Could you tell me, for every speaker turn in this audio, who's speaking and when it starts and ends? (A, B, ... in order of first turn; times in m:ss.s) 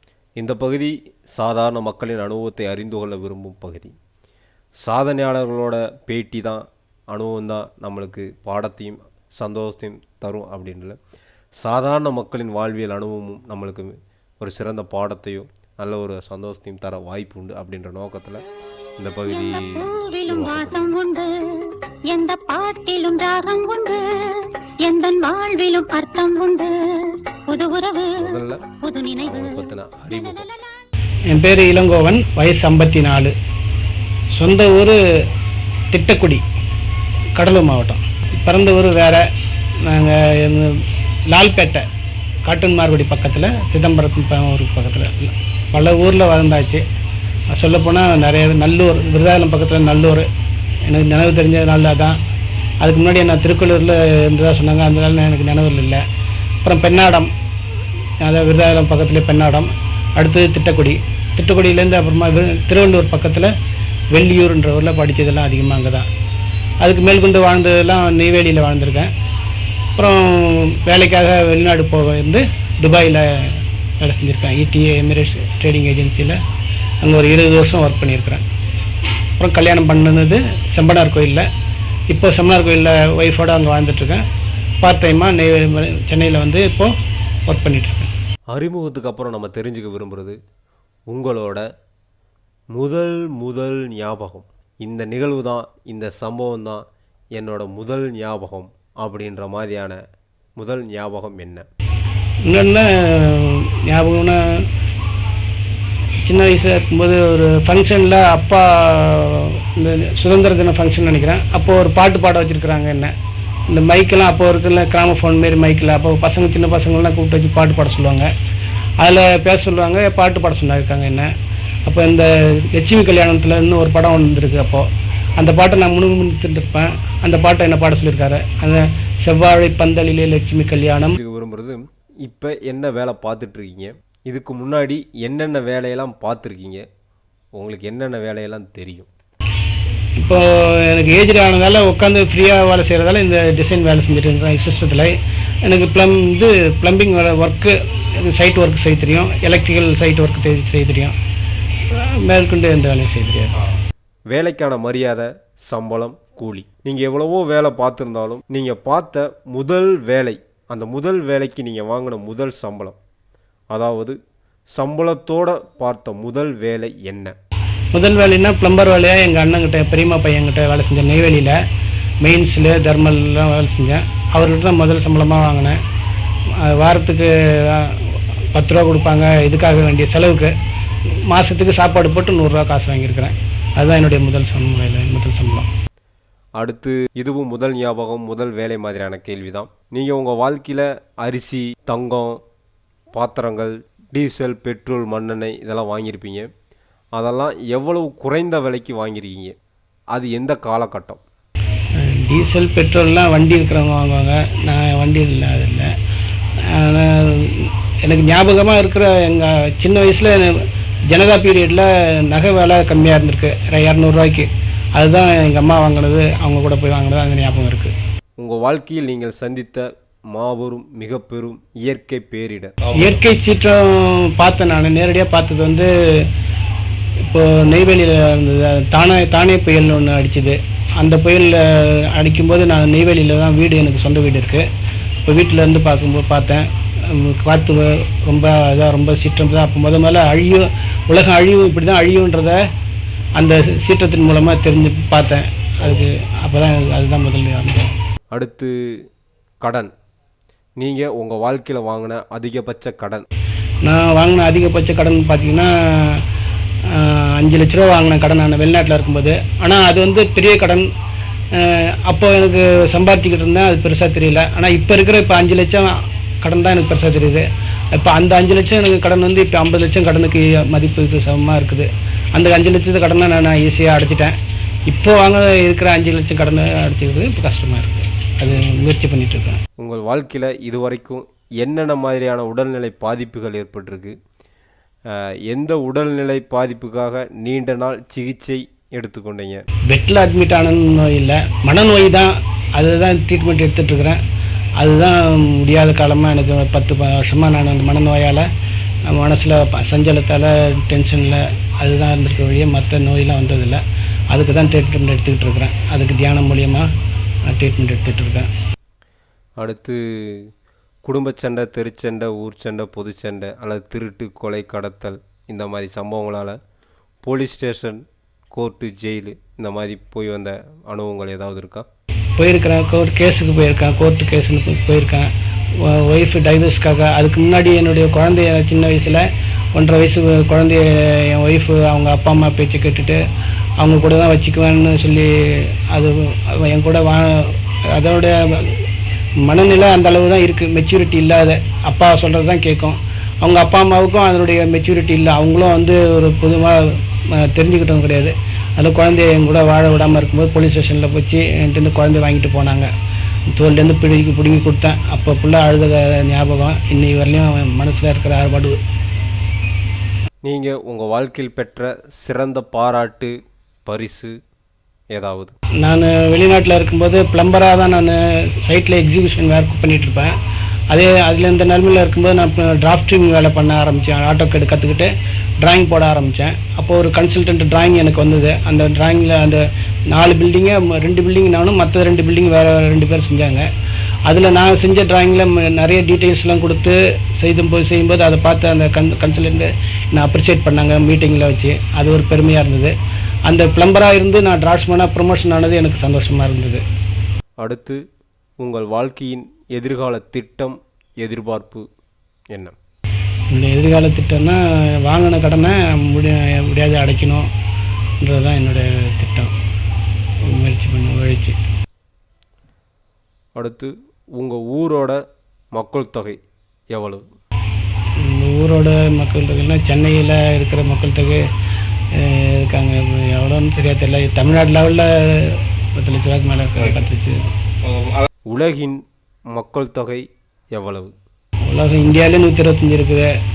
0:00.4-0:03.9 A
0:04.8-0:11.0 A
0:11.6-0:18.4 A
0:19.0-0:21.0 A
0:19.3-0:30.6 B
0:28.2-0:28.6 A
0:29.2-0:30.5 A
0:31.3-0:33.3 C
0:34.4-0:35.0 C
0:35.9-0:36.4 C
0:37.4-0:39.2 C
0:39.8-0:41.8 C
0:42.4-0:46.8 C
0:47.5-0:50.3 C
0:50.8-0:52.2 C
0:52.8-0:56.0 C
0:56.6-0:57.3 C
0:58.2-1:03.5 C
1:04.1-1:06.1 C
1:06.8-1:09.1 C
1:10.0-1:16.4 C
1:17.0-1:18.4 C
1:19.4-1:21.5 C
1:22.1-1:24.2 C
1:24.8-1:26.9 C
1:27.5-1:28.1 C
1:28.5-1:30.4 A
1:31.1-1:31.6 A
1:32.7-1:40.0 A
1:40.6-1:41.7 A
1:42.4-1:44.7 C
1:46.2-1:53.1 C
1:53.7-1:58.3 C
1:59.0-2:01.3 C
2:01.9-2:11.2 C
2:11.2-2:16.8 A
2:17.6-2:19.1 A
2:20.2-2:25.1 C
2:25.6-2:31.2 C
2:31.9-2:33.5 C
2:34.3-2:43.0 A
2:43.7-2:44.2 A
2:44.8-2:47.3 A
2:47.9-2:51.6 C
2:52.2-2:55.8 C
2:56.6-3:00.5 C
3:01.3-3:05.7 C
3:06.6-3:12.4 A
3:13.1-3:16.5 A
3:17.2-3:19.6 A
3:20.1-3:21.2 A
3:22.0-3:25.9 C
3:26.7-3:37.9 C
3:38.4-3:42.8 A
3:42.9-3:46.3 C
3:47.3-3:54.7 C
3:55.2-4:02.6 C
4:03.4-4:07.9 C
4:08.3-4:08.7 A
4:09.6-4:09.9 A
4:10.8-4:13.2 A
4:13.8-4:16.2 C
4:16.9-4:20.9 C
4:21.6-4:34.4 C
4:34.9-4:39.6 C
4:39.8-4:44.2 A
4:45.1-4:49.6 A
4:49.9-4:54.2 C
4:54.8-4:58.4 C
4:59.1-5:06.9 C
5:07.5-5:08.5 C
5:09.6-5:10.5 A
5:11.0-5:16.6 A
5:17.2-5:21.9 A
5:22.4-5:33.2 C
5:33.8-5:38.9 C
5:39.4-5:52.9 C
5:53.5-5:58.8 C
6:00.4-6:04.4 A
6:05.1-6:05.6 A
6:05.8-6:10.3 C
6:10.9-6:15.1 C
6:15.6-6:23.7 C
6:24.3-6:32.9 C
6:33.4-6:36.8 C
6:37.6-6:38.0 A
6:38.6-6:41.9 A
6:43.5-6:47.5 C
6:48.2-6:49.5 C
6:50.4-6:51.6 C
6:53.6-6:55.2 A
6:55.7-6:56.4 A
6:56.9-6:57.2 A
6:58.2-7:01.4 C
7:02.2-7:07.5 C
7:08.5-7:09.0 A
7:09.5-7:11.1 A
7:11.7-7:13.3 C